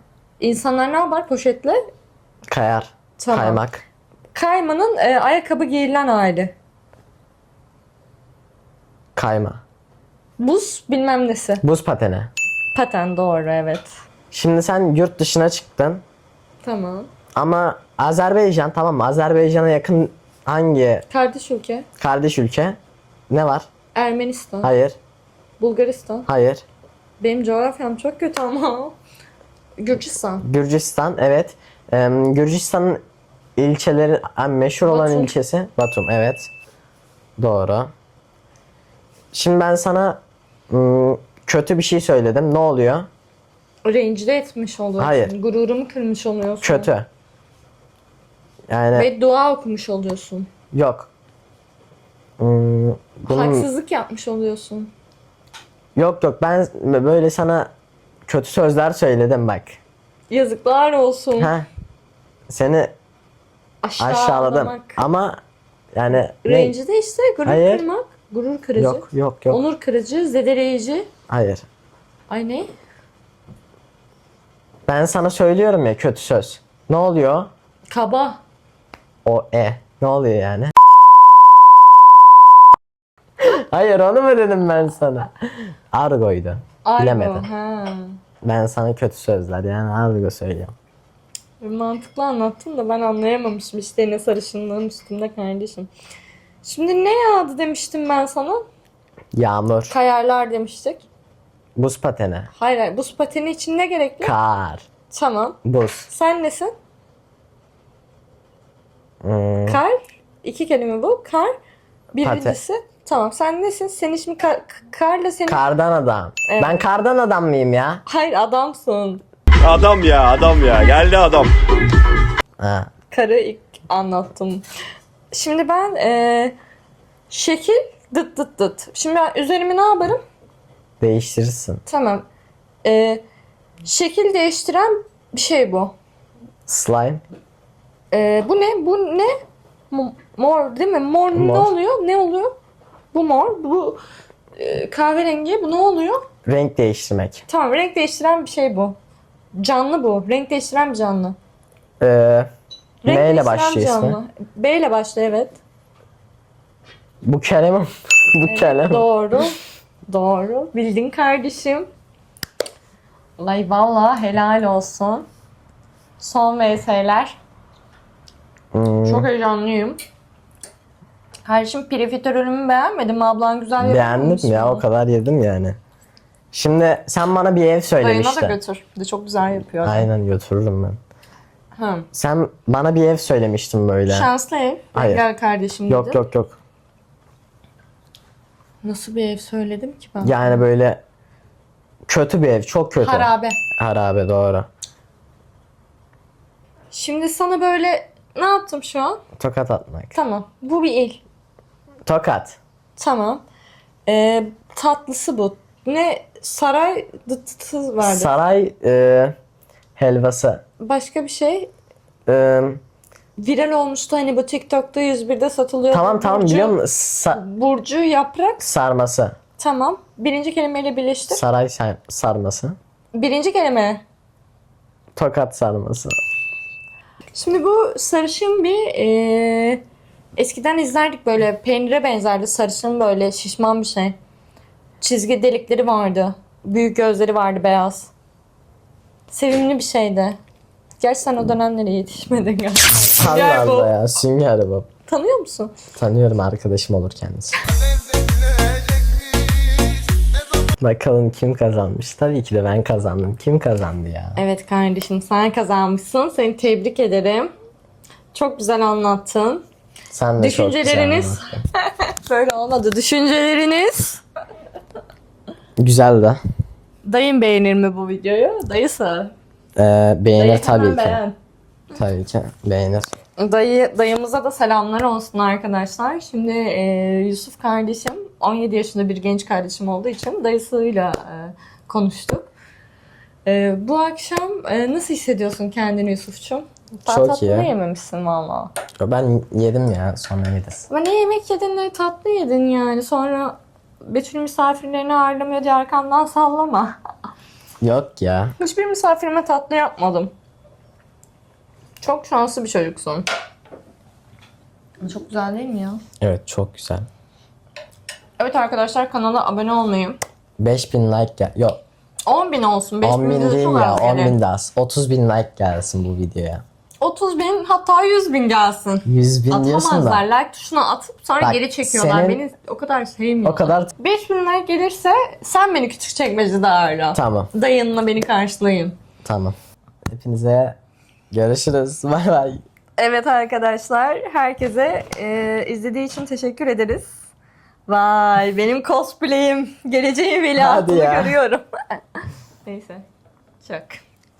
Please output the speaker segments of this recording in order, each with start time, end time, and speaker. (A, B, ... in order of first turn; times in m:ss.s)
0:00.4-0:01.8 A
0:02.5-0:03.8 B
0:03.2-0:03.6 A
0:04.3-0:06.5 A
0:09.2-0:09.6 B
0:10.4-0:11.6 A
0:11.6-0:12.3 B
0:12.7-0:13.9 A
0:14.3-0:16.0 B
0:16.6-0:17.1 A
0:17.4-0:21.0 B
0:21.1-0:21.9 A
0:22.0-0:22.8 B
0:23.3-0:23.7 B
0:23.9-0:24.7 A
0:24.6-0:25.0 B
0:25.6-0:26.3 A
0:26.3-0:26.6 B
0:27.2-0:29.0 A
0:29.8-0:30.4 A
0:30.4-0:33.0 B
0:33.6-0:36.5 B
0:34.9-0:35.3 A
0:37.4-0:37.9 B
0:39.3-0:43.1 B
0:43.8-0:46.9 A
0:45.0-0:45.3 B
0:46.6-0:47.1 B
0:48.7-0:49.1 B
0:48.9-0:50.5 A
0:50.7-0:51.1 B
0:52.4-0:53.7 B
0:53.3-0:54.9 A
0:56.0-0:57.7 B
0:58.3-0:59.8 B
1:00.3-1:01.5 A
1:01.4-1:01.7 B
1:02.5-1:02.9 B
1:03.8-1:05.0 A
1:04.0-1:05.4 B
1:05.9-1:06.8 B
1:06.3-1:11.1 A
1:07.4-1:07.8 B
1:08.8-1:09.6 B
1:11.3-1:11.6 B
1:12.3-1:12.7 A
1:14.9-1:17.5 B
1:17.9-1:18.4 A
1:19.2-1:20.7 B
1:23.4-1:27.4 B
1:26.8-1:28.2 A
1:28.4-1:30.7 B
1:31.6-1:35.9 A
1:36.6-1:38.6 A
1:39.3-1:39.9 B
1:39.9-1:41.0 A
1:41.8-1:42.5 B
1:42.5-1:44.4 A
1:44.2-1:44.9 B
1:45.1-1:45.6 A
1:45.6-1:46.1 B
1:46.1-1:46.7 A
1:49.2-1:49.8 B
1:49.7-1:51.5 A
1:52.1-1:55.6 A
1:52.2-1:52.6 B
1:55.5-1:58.0 B
1:56.5-1:56.8 A
1:58.0-1:59.2 A
1:59.6-2:01.6 C
2:02.6-2:02.9 B
2:03.1-2:04.6 A
2:05.3-2:06.6 A
2:07.3-2:10.2 A
2:11.0-2:11.8 B
2:11.9-2:12.2 A
2:12.8-2:13.2 A
2:13.8-2:15.9 A
2:16.7-2:17.2 B
2:18.1-2:19.3 A
2:19.9-2:22.6 A
2:21.3-2:21.7 B
2:23.1-2:24.0 A
2:24.6-2:26.2 A
2:26.4-2:27.4 B
2:27.5-2:29.0 A
2:29.6-2:31.4 A
2:32.0-2:32.5 B
2:33.0-2:35.6 A
2:33.1-2:34.2 B
2:37.2-2:39.1 B
2:38.5-2:39.6 A
2:40.1-2:41.9 A
2:43.4-2:45.2 A
2:46.2-2:47.4 A
2:48.7-2:49.3 B
2:49.1-2:50.0 A
2:51.4-2:54.8 A
2:53.8-2:55.8 B
2:56.5-2:58.6 B
2:58.0-3:00.1 A
2:59.8-3:01.0 B
3:01.8-3:02.1 A
3:02.1-3:04.3 B
3:04.1-3:06.2 A
3:04.9-3:05.2 B
3:05.9-3:06.6 B
3:08.8-3:10.6 A
3:10.2-3:11.0 B
3:12.1-3:14.7 B
3:13.0-3:13.6 A
3:16.9-3:19.2 A
3:19.4-3:20.1 B
3:20.1-3:21.2 A
3:22.1-3:22.6 B
3:23.0-3:23.4 A
3:24.1-3:28.3 A
3:28.0-3:29.3 B
3:30.0-3:30.6 B
3:30.8-3:31.7 A
3:32.3-3:32.8 B
3:33.4-3:36.8 A
3:35.9-3:37.4 B
3:37.3-3:38.7 A
3:38.6-3:39.4 B
3:39.6-3:41.4 A
3:41.3-3:42.8 B
3:43.1-3:44.0 A
3:45.2-3:46.2 B
3:47.3-3:49.8 A
3:50.4-3:54.2 A
3:55.0-3:58.1 A
3:59.3-4:00.4 A
4:01.0-4:03.9 A
4:03.2-4:04.9 B
4:05.1-4:05.7 A
4:06.0-4:07.6 B
4:10.8-4:14.4 B
4:14.4-4:17.5 A
4:18.3-4:19.6 A
4:20.1-4:21.6 B
4:20.4-4:24.2 A
4:25.8-4:26.4 B
4:27.0-4:29.3 A
4:29.8-4:31.2 B
4:30.3-4:31.4 A
4:31.9-4:33.1 B
4:33.4-4:42.5 A
4:43.4-4:48.7 A
4:47.1-4:47.7 B
4:49.0-4:50.9 B
4:50.9-4:57.0 A
4:57.8-4:58.6 B
4:58.6-5:00.3 A
5:02.0-5:03.2 A
5:05.0-5:06.0 A
5:06.2-5:07.1 B
5:08.4-5:10.2 A
5:10.6-5:11.8 B
5:12.2-5:14.4 A
5:13.0-5:16.6 B
5:17.0-5:29.0 A
5:19.0-5:20.2 B
5:21.4-5:22.4 B
5:23.4-5:23.9 B
5:27.1-5:27.5 B
5:29.2-5:29.6 B
5:30.1-5:30.8 B
5:31.3-5:32.6 B
5:33.0-5:37.2 A
5:37.9-5:43.0 A
5:40.6-5:41.4 B
5:43.6-5:44.0 A